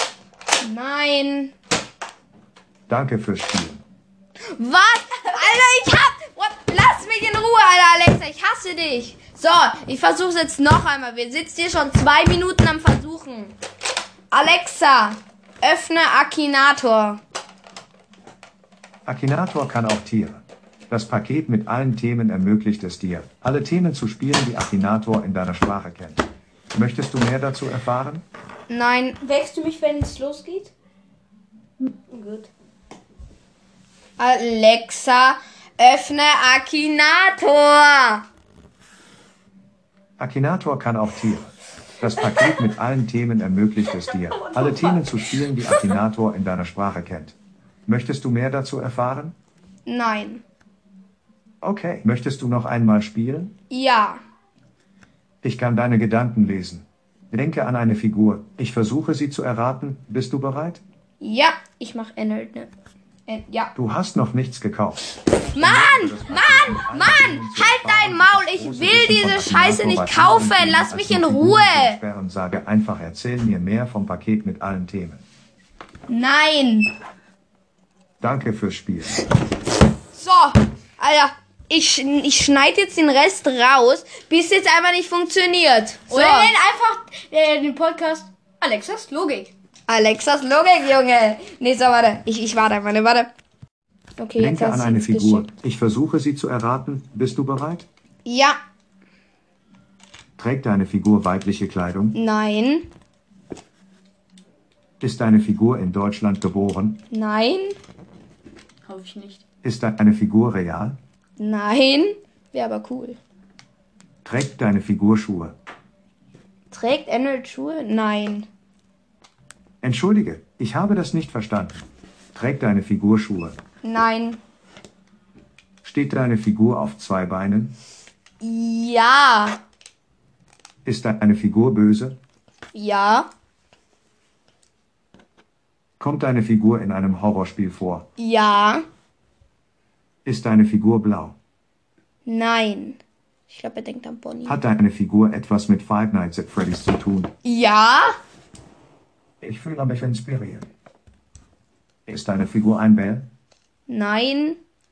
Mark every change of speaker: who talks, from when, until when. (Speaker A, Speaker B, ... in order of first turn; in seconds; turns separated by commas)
Speaker A: 0.6-1.5, Speaker B: 2.9-3.8, Speaker A: 4.5-13.6, Speaker A: 14.3-17.2, Speaker B: 19.1-28.2, Speaker A: 28.7-29.2, Speaker C: 29.2-30.7, Speaker C: 31.8-32.5, Speaker A: 34.2-38.2, Speaker B: 40.2-47.3, Speaker C: 44.3-45.9, Speaker B: 47.9-49.3, Speaker A: 49.9-50.4, Speaker B: 51.6-53.5, Speaker A: 53.7-54.2, Speaker B: 55.4-60.8, Speaker A: 61.2-62.7, Speaker A: 63.3-63.7, Speaker B: 63.7-75.2, Speaker A: 65.5-72.0, Speaker A: 76.1-76.9, Speaker B: 78.2-79.2, Speaker A: 80.1-86.5, Speaker C: 86.1-89.5, Speaker A: 89.9-93.3, Speaker A: 94.2-95.5, Speaker B: 94.4-97.9, Speaker A: 98.2-98.6, Speaker B: 100.4-102.1, Speaker A: 102.1-102.9, Speaker B: 105.0-107.0, Speaker A: 107.1-107.8, Speaker C: 108.8-109.4, Speaker B: 109.6-111.0, Speaker A: 111.4-113.2, Speaker B: 114.2-115.5, Speaker A: 116.7-118.5, Speaker B: 119.8-123.6, Speaker A: 123.8-124.4, Speaker B: 125.8-127.7, Speaker A: 128.4-129.6, Speaker B: 130.8-132.2, Speaker A: 132.7-133.3, Speaker B: 136.0-138.1, Speaker A: 138.2-138.8, Speaker B: 140.2-141.3, Speaker A: 142.2-144.6, Speaker B: 144.4-147.3, Speaker A: 147.4-148.2, Speaker B: 149.4-150.7, Speaker B: 152.1-153.2, Speaker A: 153.9-154.6